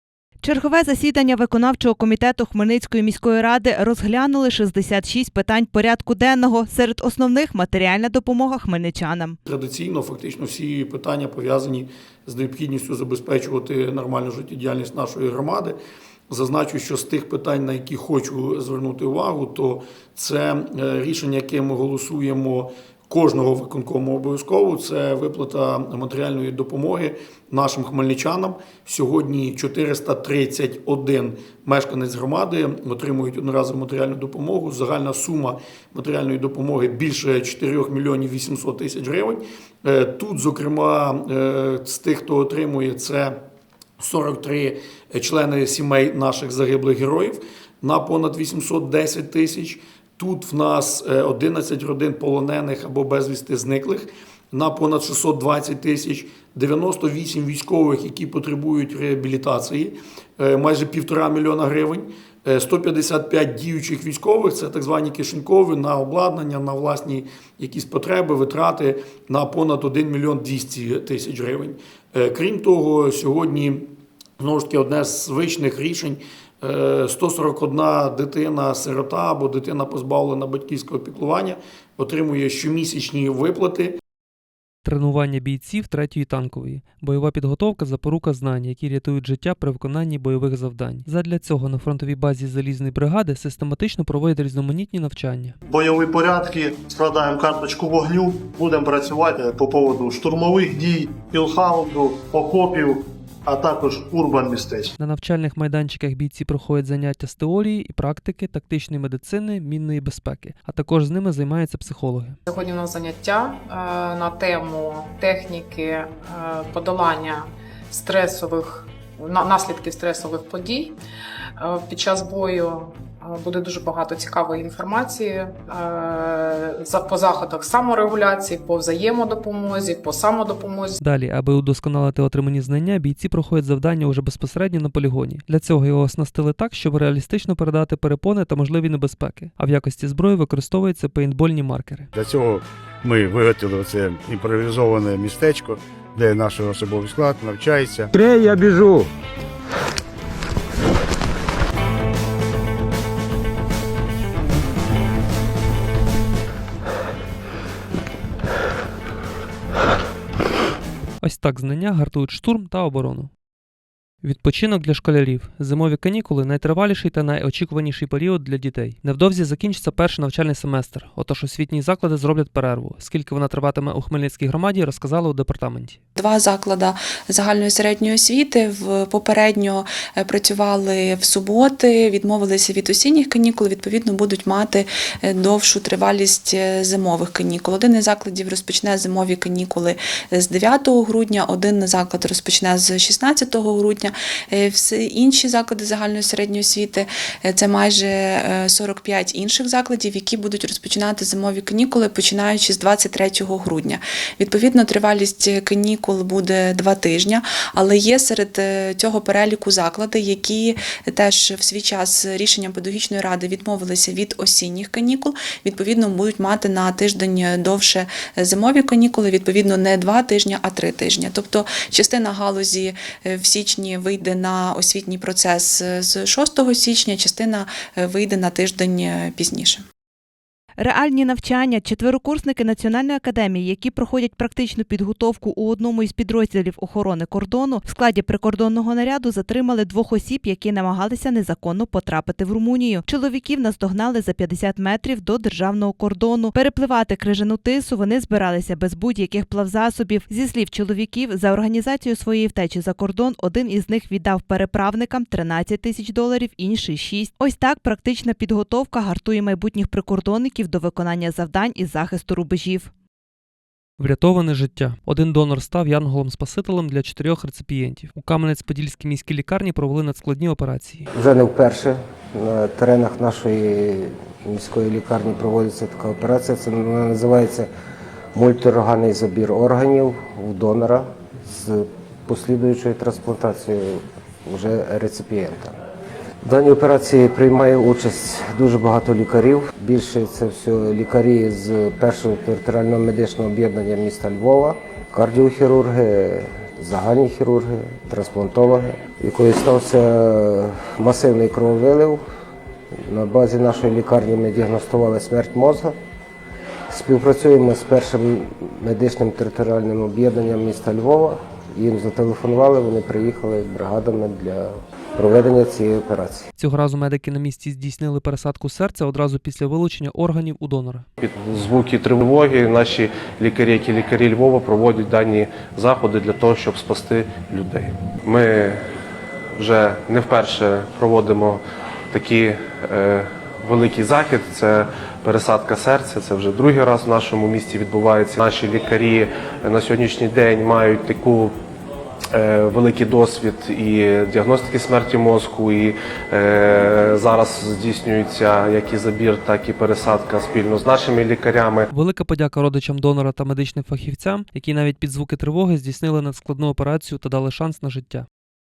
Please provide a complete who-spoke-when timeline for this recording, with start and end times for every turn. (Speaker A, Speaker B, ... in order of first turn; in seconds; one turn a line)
Speaker A: 0.4-9.4
Speaker B: 9.5-15.8
Speaker B: 16.3-43.4
Speaker B: 44.0-84.0
Speaker C: 84.8-95.5
Speaker D: 95.7-104.9
Speaker C: 105.0-112.4
Speaker E: 112.5-120.9
Speaker E: 121.6-131.0
Speaker C: 131.0-142.1
Speaker F: 142.1-148.1
Speaker C: 161.2-163.3
Speaker C: 164.2-176.0
Speaker G: 176.2-229.8
Speaker A: 230.8-262.9
Speaker C: 264.0-271.1
Speaker H: 271.1-277.7
Speaker H: 278.4-285.8
Speaker H: 286.4-302.2
Speaker H: 303.1-305.9
Speaker H: 306.9-316.5
Speaker C: 316.6-321.1
Speaker I: 321.2-328.8
Speaker I: 329.6-341.6
Speaker I: 342.3-351.9
Speaker C: 351.9-358.3